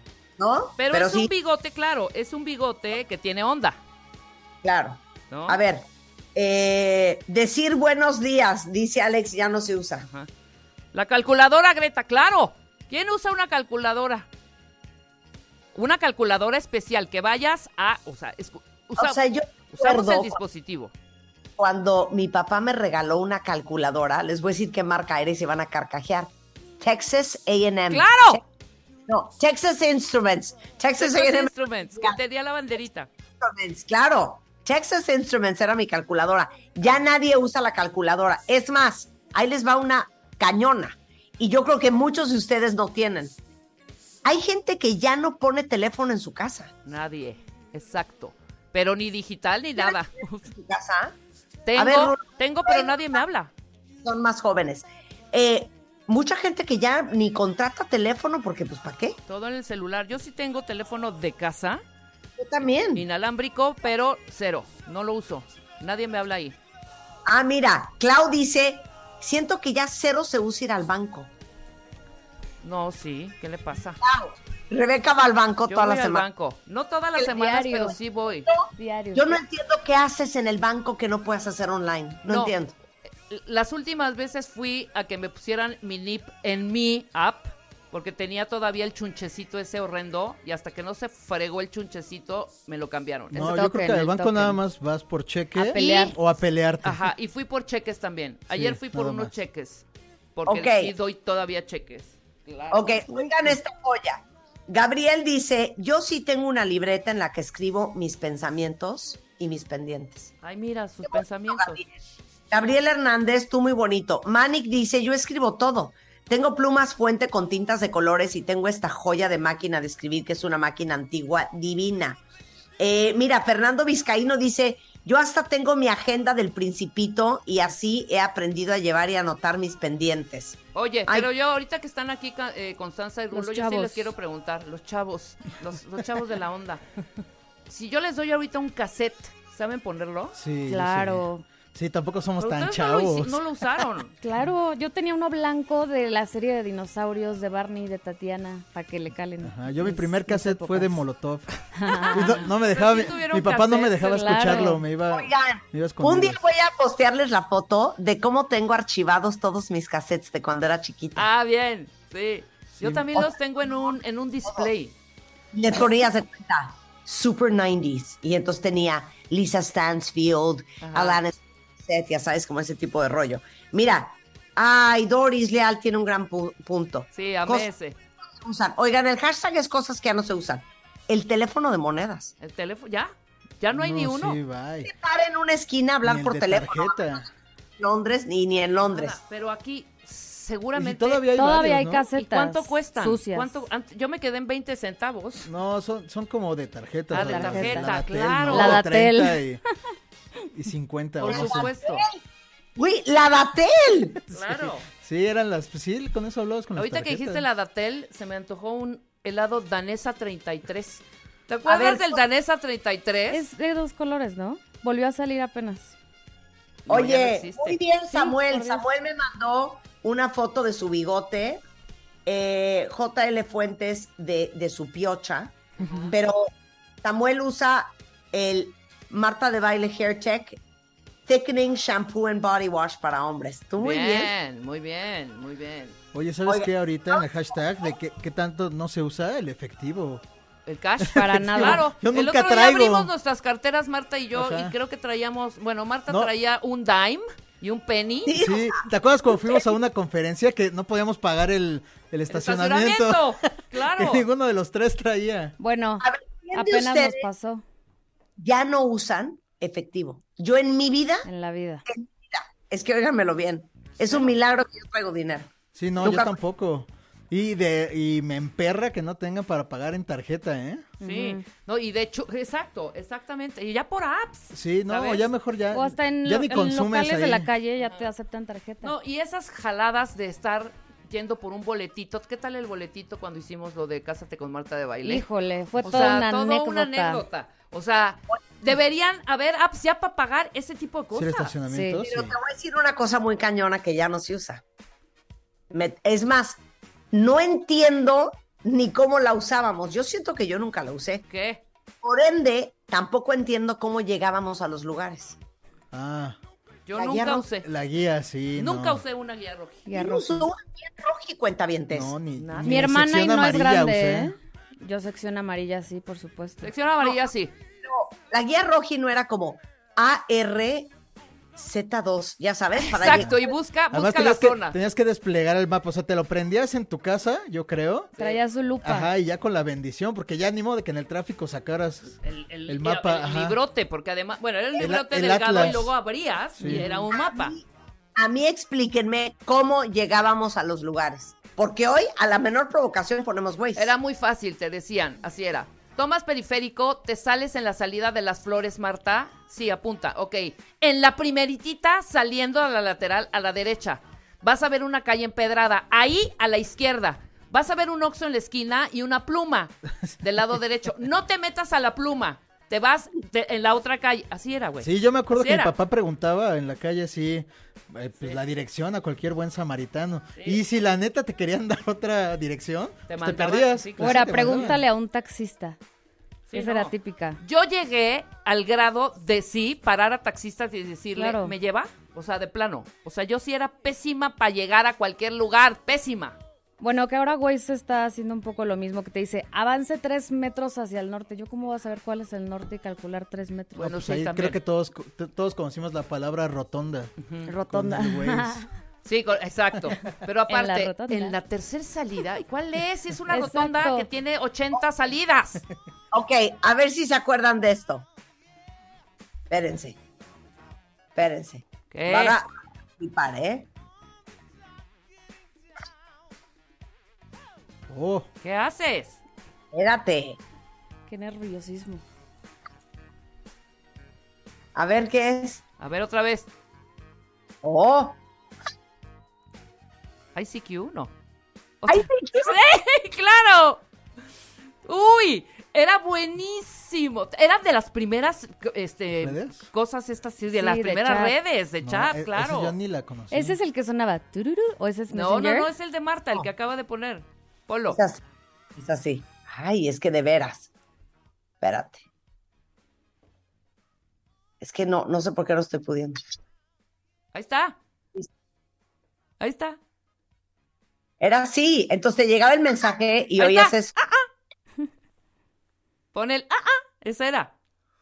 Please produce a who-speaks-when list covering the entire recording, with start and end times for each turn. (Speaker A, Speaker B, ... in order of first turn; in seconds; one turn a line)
Speaker A: 0.4-1.3
Speaker B: 0.8-3.8
Speaker A: 4.6-10.1
Speaker B: 5.3-5.6
Speaker B: 10.9-14.3
Speaker B: 15.7-19.2
Speaker A: 19.0-20.4
Speaker B: 19.7-20.9
Speaker A: 21.6-28.4
Speaker B: 27.9-28.4
Speaker A: 29.1-32.2
Speaker B: 30.9-33.1
Speaker A: 33.4-43.4
Speaker A: 44.2-46.7
Speaker B: 46.8-50.5
Speaker A: 49.8-51.1
Speaker B: 51.6-53.5
Speaker A: 51.8-52.9
Speaker A: 54.0-59.2
Speaker B: 59.3-61.8
Speaker A: 62.4-63.0
Speaker B: 62.9-66.5
Speaker A: 67.2-71.3
Speaker B: 72.6-74.0
Speaker A: 74.0-76.2
Speaker B: 75.7-78.5
Speaker C: 77.2-78.0
Speaker A: 78.5-82.7
Speaker C: 78.8-79.4
Speaker B: 82.3-82.5
Speaker B: 83.3-93.6
Speaker D: 93.3-97.1
Speaker C: 93.3-94.6
Speaker C: 95.5-96.2
Speaker B: 95.8-96.2
Speaker B: 96.8-99.8
Speaker D: 98.5-99.3
Speaker B: 100.3-103.5
Speaker A: 100.5-100.9
Speaker A: 102.7-110.3
Speaker B: 110.4-111.8
Speaker A: 111.0-111.9
Speaker A: 112.5-122.2
Speaker A: 122.8-131.3
Speaker B: 130.7-136.8
Speaker C: 133.3-134.1
Speaker B: 137.7-140.3
Speaker D: 140.3-143.4
Speaker C: 140.7-141.5
Speaker B: 142.4-144.1
Speaker C: 144.2-151.0
Speaker D: 149.4-156.4
Speaker C: 151.7-152.5
Speaker B: 152.0-154.3
Speaker C: 154.0-154.9
Speaker A: 155.1-161.3
Speaker B: 161.2-164.9
Speaker D: 162.7-163.2
Speaker A: 165.5-177.7
Speaker B: 170.8-171.2
Speaker B: 177.1-178.0
Speaker A: 178.4-182.3
Speaker B: 182.4-184.4
Speaker D: 183.7-184.9
Speaker A: 184.8-187.2
Speaker D: 186.0-187.3
Speaker A: 187.8-189.2
Speaker B: 188.9-191.3
Speaker D: 190.7-192.1
Speaker C: 191.3-193.6
Speaker B: 192.1-195.5
Speaker D: 195.4-199.6
Speaker B: 197.1-198.8
Speaker C: 197.2-197.9
Speaker C: 198.5-199.4
Speaker D: 200.5-201.7
Speaker B: 201.2-202.0
Speaker A: 201.2-202.2
Speaker A: 202.8-204.2
Speaker B: 204.3-204.8
Speaker D: 204.3-207.4
Speaker B: 206.8-213.4
Speaker A: 211.7-212.2
Speaker C: 213.3-215.9
Speaker B: 216.8-217.8
Speaker A: 216.9-221.6
Speaker C: 218.1-218.8
Speaker A: 222.2-226.5
Speaker B: 225.8-226.1
Speaker A: 227.0-230.6
Speaker A: 231.2-234.3
Speaker B: 233.8-235.9
Speaker D: 236.1-240.2
Speaker A: 236.4-237.2
Speaker B: 240.7-248.3
Speaker D: 241.0-243.1
Speaker C: 241.1-241.9
Speaker D: 244.3-244.7
Speaker A: 248.2-249.7
Speaker D: 248.4-255.5
Speaker B: 252.3-254.2
Speaker C: 255.6-257.6
Speaker A: 256.0-257.2
Speaker A: 258.4-261.3
Speaker C: 261.2-261.8
Speaker A: 261.9-266.3
Speaker D: 265.7-270.9
Speaker C: 271.0-271.4
Speaker B: 271.0-275.3
Speaker D: 274.5-277.5
Speaker C: 275.7-278.9
Speaker B: 277.8-278.1
Speaker B: 278.8-285.2
Speaker C: 285.0-287.2
Speaker B: 285.8-291.6
Speaker D: 291.1-292.4
Speaker C: 291.7-292.0
Speaker A: 292.0-294.6
Speaker A: 295.7-296.6
Speaker A: 297.1-301.2
Speaker B: 301.3-301.6
Speaker A: 302.0-305.4
Speaker D: 305.9-306.4
Speaker B: 306.9-307.7
Speaker A: 306.9-307.4
Speaker D: 307.6-309.0
Speaker B: 308.6-309.9
Speaker C: 309.9-310.5
Speaker A: 309.9-312.1
Speaker D: 311.9-314.3
Speaker B: 312.4-312.9
Speaker C: 312.6-316.7
Speaker B: 316.6-317.5
Speaker A: 317.8-320.9
Speaker A: 321.6-323.4
Speaker B: 322.8-324.8
Speaker D: 323.0-323.3
Speaker D: 323.9-328.1
Speaker B: 328.2-328.4
Speaker C: 328.2-329.1
Speaker D: 328.8-333.6
Speaker B: 332.2-337.6
Speaker D: 334.8-335.9
Speaker D: 336.6-336.9
Speaker A: 336.8-343.9
Speaker B: 343.7-365.7
Speaker D: 364.8-374.8
Speaker B: 370.4-370.6
Speaker B: 373.1-374.8
Speaker C: 374.0-375.8
Speaker B: 376.5-386.4
Speaker C: 376.5-377.4
Speaker C: 381.1-381.6
Speaker C: 386.8-393.9
Speaker B: 393.8-394.6
Speaker D: 393.8-397.1
Speaker B: 397.2-397.5
Speaker C: 397.4-398.7
Speaker D: 397.7-398.6
Speaker B: 399.0-405.6
Speaker C: 400.5-401.4
Speaker C: 403.3-404.1
Speaker A: 406.1-408.1
Speaker A: 409.5-410.0
Speaker A: 411.1-412.5
Speaker B: 411.9-412.4
Speaker A: 413.0-413.7
Speaker D: 417.9-418.3
Speaker B: 418.4-419.2
Speaker A: 419.7-420.4
Speaker C: 421.1-422.0
Speaker A: 424.7-425.6
Speaker B: 425.8-426.5
Speaker A: 427.6-428.2
Speaker B: 430.3-431.1
Speaker B: 431.8-433.8
Speaker A: 431.9-432.6
Speaker B: 434.8-442.7
Speaker D: 439.2-439.7
Speaker C: 440.5-441.4
Speaker D: 441.8-443.6
Speaker C: 443.3-445.7
Speaker B: 445.1-448.0
Speaker A: 447.9-448.2
Speaker A: 448.8-450.7
Speaker A: 451.6-452.0
Speaker A: 454.6-456.2
Speaker B: 457.3-457.8
Speaker B: 459.4-459.8
Speaker A: 461.2-463.9
Speaker B: 463.4-464.3
Speaker B: 466.1-467.5